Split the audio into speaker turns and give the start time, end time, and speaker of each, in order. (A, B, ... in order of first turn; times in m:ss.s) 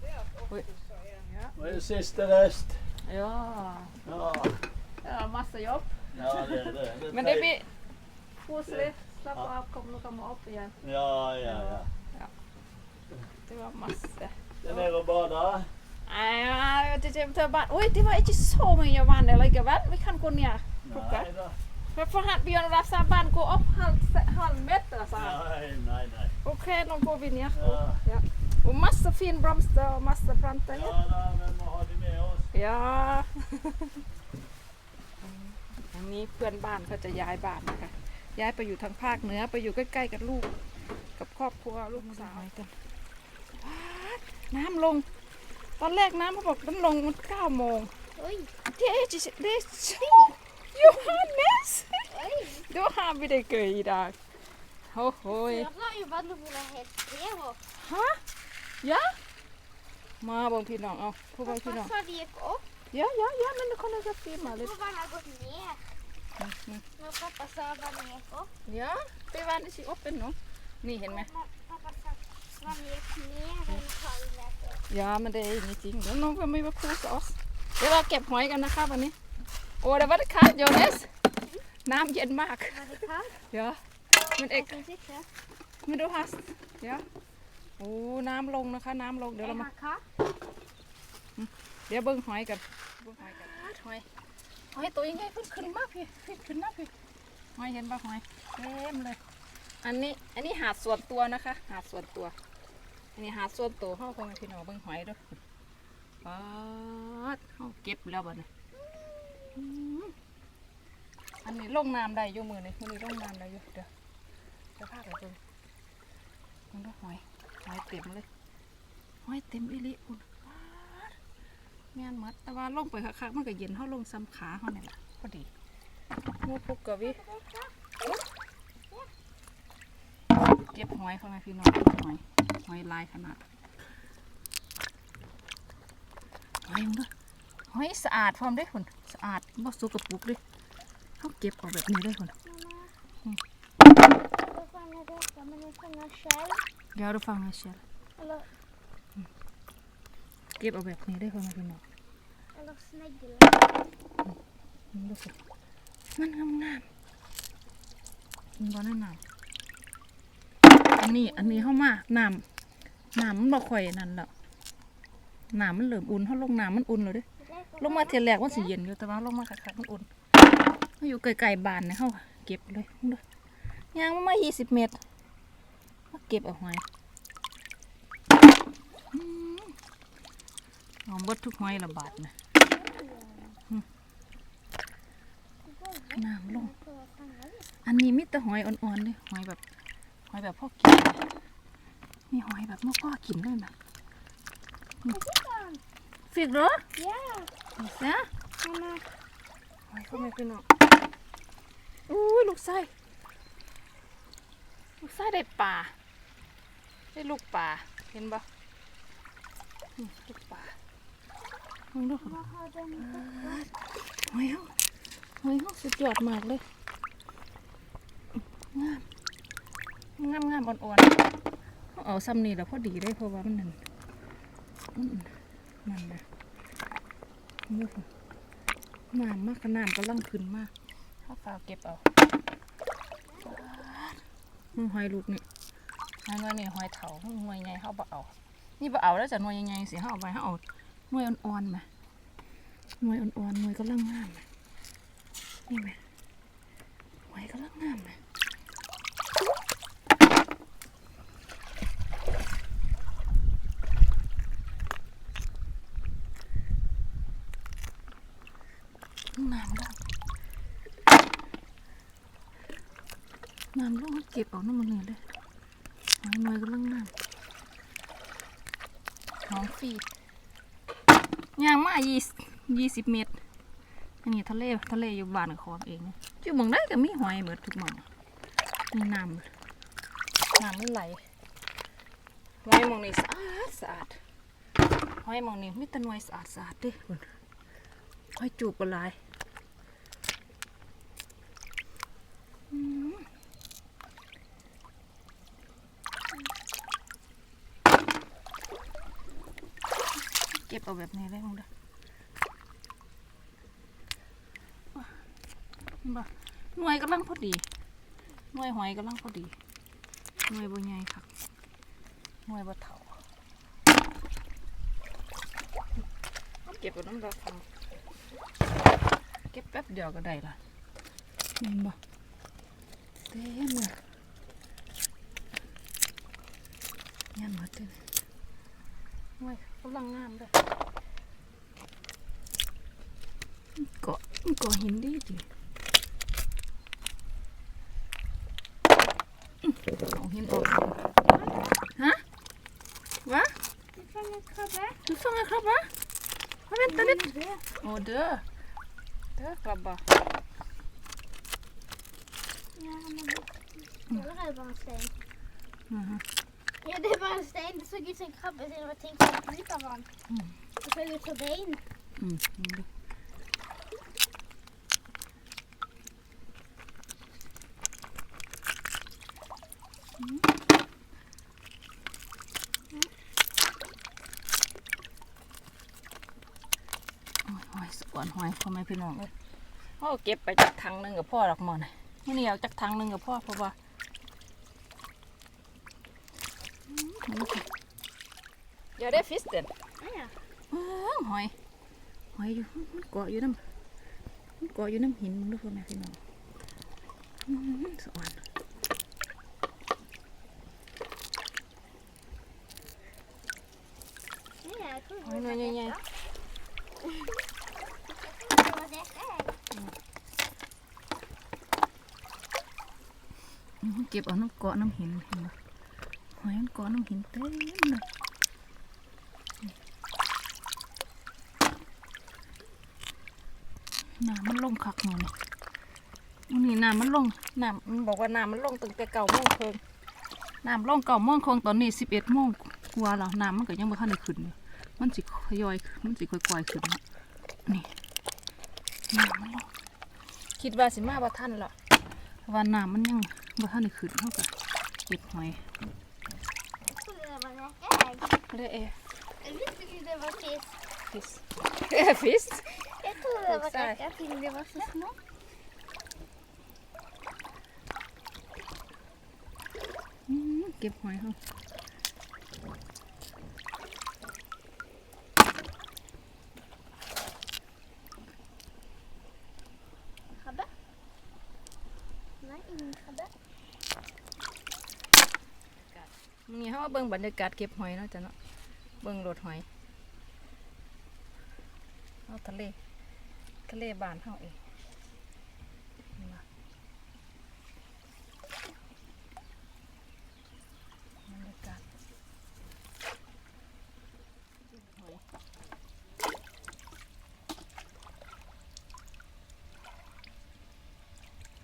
0:00.4-0:01.8 A
0:01.6-0:02.9 B
0:03.0-0:03.9 A
0:04.0-0:04.6 B
0:05.0-0:07.7 A
0:06.1-0:07.5 B
0:08.4-0:10.8 A
0:08.7-0:09.5 B
0:10.8-0:11.9 B
0:11.4-0:12.3 A
0:13.4-0:14.9 A
0:14.6-0:15.7 B
0:16.0-0:21.3 A
0:20.8-0:21.6 B
0:21.9-0:25.4 A
0:25.1-0:26.3 B
0:26.4-0:31.0 A
0:27.6-0:28.0 B
0:30.7-0:32.5 B
0:32.5-0:34.0 A
0:35.2-0:40.5 A
0:41.2-0:42.7 A
0:42.0-0:42.5 C
0:43.6-0:45.1 A
0:45.8-0:47.9 A
0:48.2-0:48.5 C
0:48.7-0:54.2 A
0:50.0-0:51.2 C
0:52.0-0:52.7 C
0:54.9-0:55.7 A
0:55.3-0:57.6 C
0:57.7-0:58.2 A
0:58.8-0:59.2 A
1:00.2-1:01.9 A
1:01.4-1:02.6 C
1:02.9-1:04.7 A
1:04.4-1:05.9 C
1:06.4-1:06.8 A
1:07.0-1:08.5 C
1:08.6-1:11.3 A
1:11.1-1:14.8 C
1:14.9-1:19.1 A
1:19.8-1:21.1 A
1:21.8-1:23.8 A
1:22.7-1:23.4 C
1:24.3-1:24.8 A
1:24.4-1:25.3 C
1:25.8-1:27.0 A
1:27.8-1:29.7 A
1:29.4-1:30.0 C
1:31.4-1:34.0 A
1:34.7-1:36.9 A
1:37.6-1:39.2 A
1:39.8-1:42.3 A
1:43.1-1:45.4 A
1:46.2-1:48.5 A
1:48.8-1:49.5 C
1:49.5-1:50.1 A
1:51.4-1:53.9 A
1:54.8-1:55.4 A
1:56.7-1:58.3 A
1:59.2-2:01.2 A
2:01.9-2:05.5 A
2:06.4-2:07.2 A
2:07.0-2:07.8 C
2:10.7-2:13.4 A
2:16.6-2:17.1 A
2:17.7-2:20.4 A
2:21.2-2:22.3 A
2:22.4-2:22.9 C
2:24.3-2:26.6 C
2:26.9-2:27.8 A
2:28.2-2:28.5 C
2:30.6-2:31.8 A
2:32.5-2:33.7 C
2:34.9-2:35.4 A
2:36.2-2:36.8 A
2:38.6-2:39.2 A
2:41.0-2:42.4 A
2:41.0-2:41.8 C
2:43.1-2:44.3 A
2:45.5-2:47.2 A
2:47.4-2:48.7 C
2:47.8-2:50.1 A
2:51.0-2:53.2 A
2:53.9-2:55.0 A
2:56.1-2:56.8 A
2:59.1-2:59.8 A
3:01.0-3:02.3 A
3:01.6-3:03.6 C
3:05.6-3:07.7 C
3:06.1-3:06.7 A
3:07.8-3:09.6 A
3:10.3-3:11.2 A
3:12.3-3:13.7 A
3:15.1-3:15.8 C
3:16.3-3:16.8 A
3:16.9-3:17.5 C
3:17.8-3:18.3 A
3:18.6-3:19.1 C
3:19.9-3:20.6 A
3:22.1-3:22.9 A
3:25.0-3:25.9 A
3:27.1-3:28.4 A
3:30.0-3:30.8 A
3:31.9-3:32.4 A
3:32.2-3:33.7 C
3:33.0-3:34.7 A
3:35.4-3:36.6 A
3:38.7-3:39.0 A
3:40.2-3:41.2 A
3:41.9-3:43.8 A
3:44.9-3:45.3 A
3:45.8-3:46.2 A
3:47.7-3:48.1 A
3:49.1-3:50.7 A
3:51.2-3:52.0 A
3:53.4-3:54.2 A
3:54.7-3:55.4 A
3:56.2-4:01.8 A
4:03.0-4:04.4 A
4:05.7-4:06.0 A
4:07.3-4:08.2 A
4:19.3-4:20.0 A
4:23.7-4:25.2 A
4:26.2-4:27.1 A
4:29.5-4:30.0 A
4:31.6-4:33.4 A
4:34.2-4:38.0 A
4:38.9-4:39.5 A
4:40.5-4:41.2 A
4:42.6-4:44.2 A
4:45.2-4:47.3 A
4:48.4-4:49.2 A
4:52.7-4:53.3 A
5:00.5-5:01.7 A
5:04.9-5:05.2 A
5:06.0-5:07.6 A
5:08.5-5:09.6 A
5:10.5-5:11.3 A
5:12.4-5:13.1 A
5:16.6-5:17.6 A
5:19.5-5:20.6 A
5:21.6-5:22.0 A
5:23.3-5:24.0 A
5:27.3-5:28.0 A
5:29.4-5:30.5 A
5:33.8-5:35.4 A
5:39.6-5:41.0 A
5:41.3-5:41.8 C
5:42.0-5:42.2 A
5:43.2-5:43.5 A
5:43.9-5:45.0 C
5:45.0-5:45.9 A
5:46.7-5:48.4 A
5:46.8-5:47.7 C
5:49.4-5:50.0 A
5:52.8-5:55.1 C
5:55.9-5:56.2 A
5:56.8-6:00.1 C
6:00.3-6:00.5 A
6:00.8-6:01.8 C
6:02.2-6:02.9 A
6:10.2-6:10.4 A
6:17.4-6:19.3 A
6:20.0-6:23.8 A
6:26.9-6:27.7 A
6:29.0-6:29.7 A
6:30.0-6:30.4 C
6:30.7-6:31.5 A
6:32.3-6:33.6 A
6:34.6-6:36.2 A
6:37.4-6:38.4 A
6:44.6-6:46.0 C
6:45.2-6:46.0 A
6:47.0-6:47.3 C
6:48.0-6:49.5 C
6:53.8-6:55.5 A
6:56.3-6:58.0 A
7:04.2-7:05.3 A
7:06.5-7:09.8 A
7:10.6-7:17.0 A
7:17.6-7:17.9 A
7:19.1-7:19.7 A
7:20.6-7:21.7 A
7:22.4-7:24.5 A
7:25.0-7:25.6 A
7:26.9-7:28.3 C
7:28.5-7:29.0 A
7:29.4-7:30.8 C
7:31.0-7:34.0 A
7:32.7-7:34.9 C
7:34.8-7:35.1 A
7:40.3-7:41.4 A
7:50.4-7:50.7 C
7:52.4-7:53.3 C
7:55.8-7:58.3 A
7:59.0-7:59.6 A
8:02.3-8:02.8 A
8:03.7-8:04.6 A
8:06.2-8:06.4 A
8:11.2-8:11.8 A
8:14.7-8:15.2 A